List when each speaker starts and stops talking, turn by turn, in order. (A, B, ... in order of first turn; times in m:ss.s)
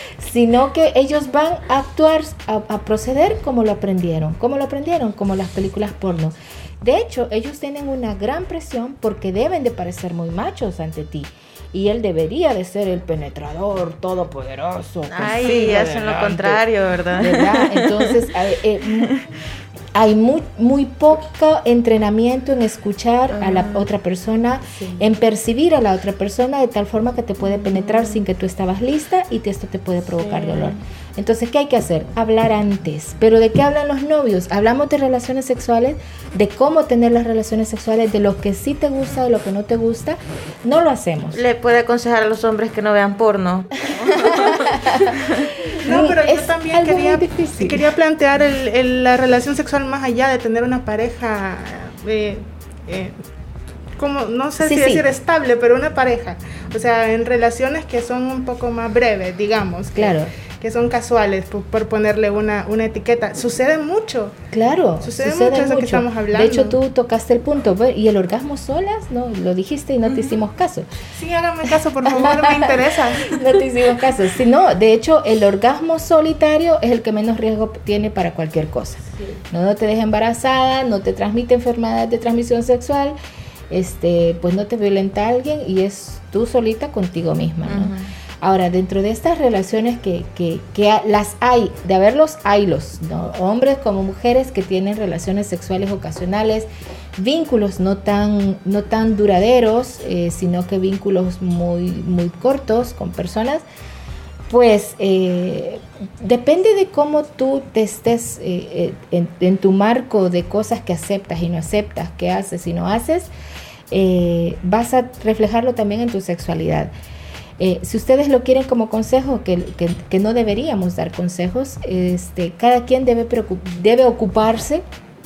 0:00.2-0:16.6 A
0:15.1-0:18.1 B
0:17.2-0:19.2 A
0:19.9-0:41.4 A
0:23.3-0:23.8 B
0:27.5-0:28.2 B
0:30.2-0:30.8 B
0:41.3-0:45.5 B
0:44.1-0:47.8 A
0:45.8-0:53.2 C
0:54.0-1:04.3 C
0:54.6-0:55.0 A
0:59.9-1:00.3 A
1:04.5-1:10.9 A
1:05.0-1:06.7 C
1:11.1-1:13.4 C
1:11.6-1:23.2 A
1:23.7-1:43.6 A
1:27.6-1:28.1 B
1:44.5-1:53.3 A
1:53.9-1:56.9 A
1:57.6-2:04.8 A